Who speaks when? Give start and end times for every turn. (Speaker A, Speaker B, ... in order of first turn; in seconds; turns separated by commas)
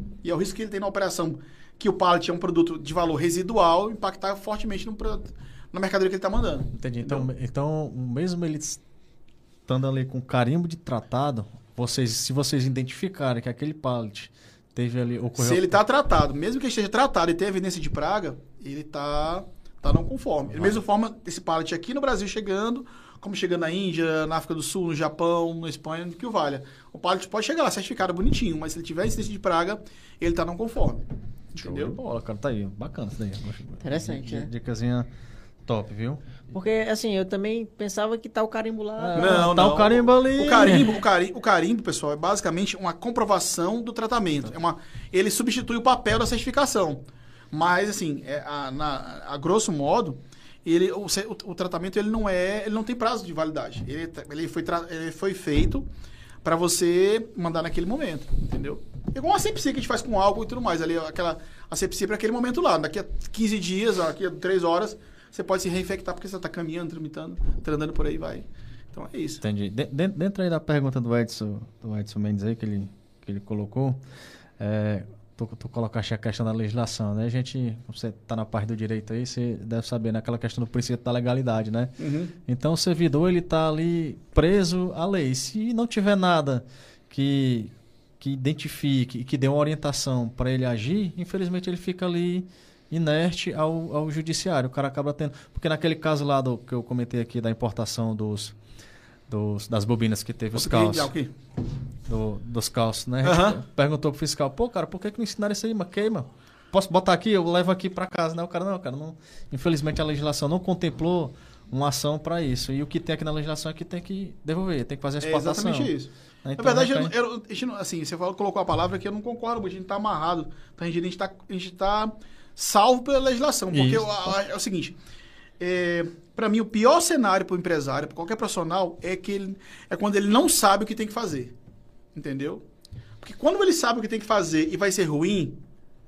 Speaker A: 0.2-7.3, Speaker B: 6.7-8.8, Speaker B: 9.7-15.8, Speaker A: 15.4-32.0, Speaker B: 20.5-20.8, Speaker B: 31.6-35.1, Speaker C: 33.8-34.5, Speaker B: 35.6-36.5, Speaker C: 36.5-39.5, Speaker B: 39.0-41.0, Speaker A: 39.1-55.9, Speaker A: 56.4-69.4, Speaker B: 69.4-74.0, Speaker B: 74.6-81.9, Speaker A: 82.0-82.3, Speaker B: 82.5-98.5, Speaker B: 99.3-101.1, Speaker A: 100.5-101.3, Speaker B: 102.1-115.9, Speaker A: 103.2-103.6, Speaker A: 115.2-124.9, Speaker B: 116.4-117.1, Speaker B: 123.7-124.3, Speaker A: 125.6-131.5, Speaker A: 132.1-132.6, Speaker A: 133.2-135.6